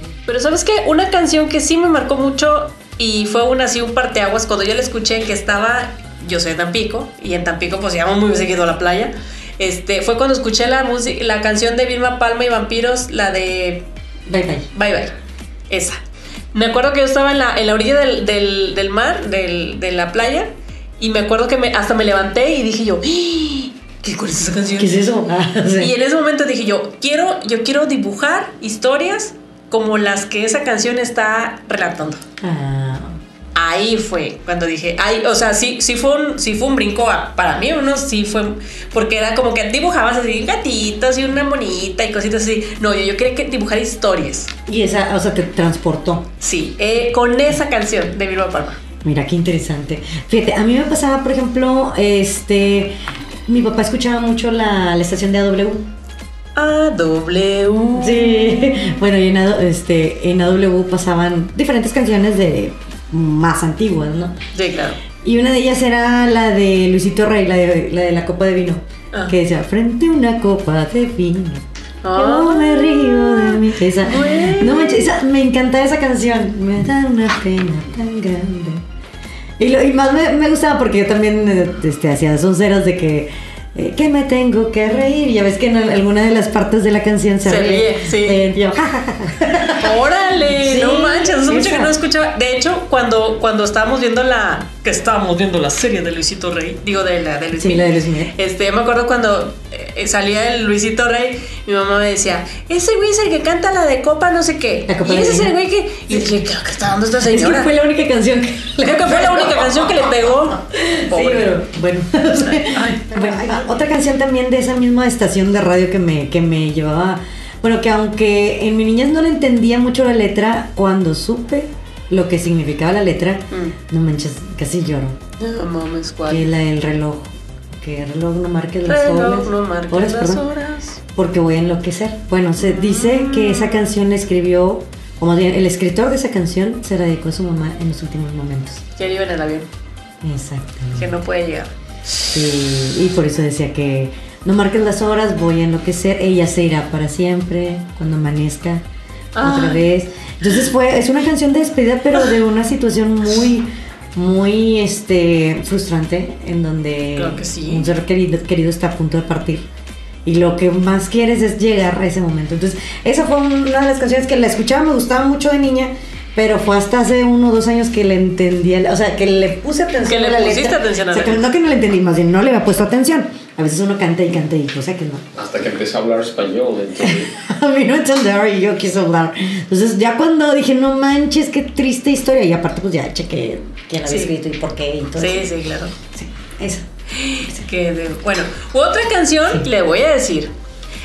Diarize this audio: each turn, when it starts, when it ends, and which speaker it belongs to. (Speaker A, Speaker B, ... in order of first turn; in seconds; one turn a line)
Speaker A: 0.3-13.8
Speaker B: 14.3-14.7
Speaker A: 14.7-15.1
Speaker A: 15.7-16.0
Speaker A: 16.5-25.0
Speaker B: 24.8-25.9
Speaker A: 25.8-32.2
Speaker B: 32.4-33.2
Speaker A: 33.5-44.5
Speaker B: 44.7-46.3
Speaker A: 46.4-48.8
Speaker B: 49.0-52.9
Speaker B: 53.5-55.9
Speaker A: 56.5-58.9
Speaker B: 58.0-64.3
Speaker A: 64.5-65.0
Speaker B: 65.2-78.8
Speaker A: 72.0-75.0
Speaker B: 79.6-91.9
Speaker A: 87.4-88.4
Speaker A: 89.8-107.7
Speaker B: 97.5-98.3
Speaker B: 104.9-105.5
Speaker B: 107.2-125.2
Speaker A: 108.8-111.5
Speaker A: 112.4-113.6
Speaker A: 123.5-123.8
Speaker A: 125.4-126.5
Speaker B: 126.3-130.4
Speaker A: 128.8-131.0
Speaker B: 131.1-138.8
Speaker A: 132.6-133.9
Speaker A: 138.9-139.7
Speaker B: 140.2-141.1
Speaker A: 140.9-141.7
Speaker B: 142.3-148.8
Speaker A: 149.3-149.8
Speaker B: 149.4-159.7
Speaker A: 157.2-157.9
Speaker B: 160.2-175.2
Speaker A: 170.0-171.5
Speaker C: 175.3-177.3
Speaker B: 177.0-185.5
Speaker A: 184.0-184.3
Speaker A: 185.2-185.9
Speaker B: 186.1-186.9
Speaker A: 187.1-190.5